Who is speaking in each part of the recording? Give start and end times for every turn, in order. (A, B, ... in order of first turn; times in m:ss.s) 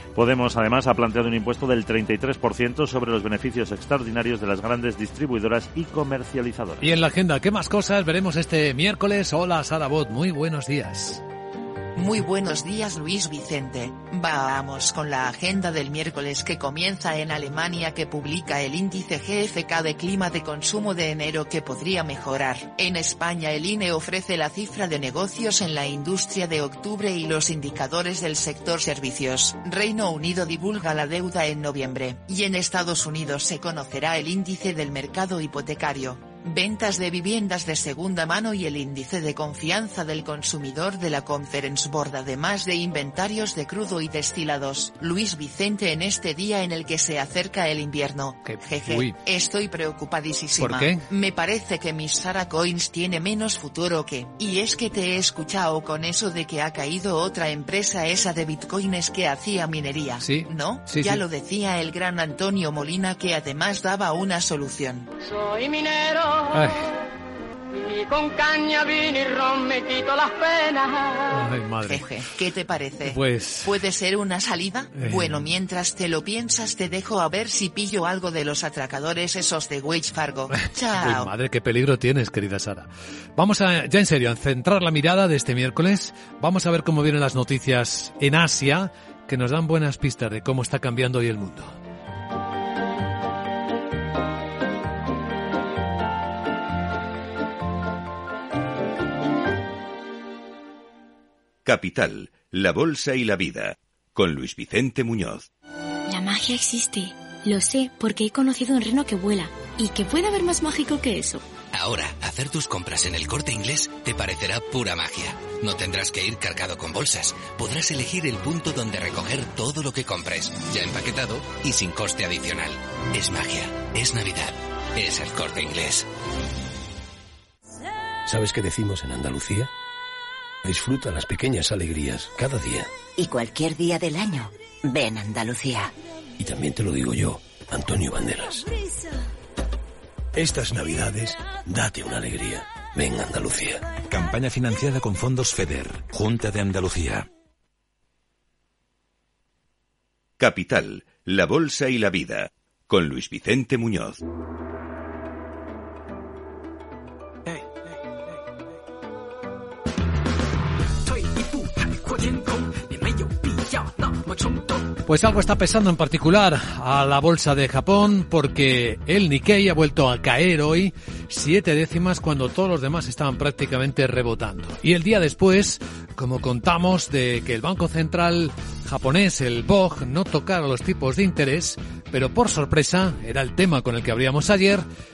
0:00.2-0:06.9 A
0:06.8-0:11.2 B
0:12.0-1:05.1 C
0:48.4-0:49.2 B
0:50.6-0:51.0 B
1:00.2-1:01.2 B
1:05.2-1:06.7 D
1:06.5-1:06.8 B
1:07.8-1:11.4 D
1:11.3-1:12.0 B
1:11.8-1:21.3 C
1:13.1-1:13.7 B
1:15.0-1:15.4 B
1:20.5-1:31.7 B
1:41.6-1:45.5 E
1:46.1-1:51.4 F
1:51.7-2:06.0 G
2:08.2-2:09.7 H
2:10.6-2:12.9 H
2:13.2-2:15.9 I
2:16.4-2:18.7 H
2:20.4-2:23.9 H
2:24.1-2:26.8 J
2:30.4-2:34.2 E
2:45.0-3:04.8 B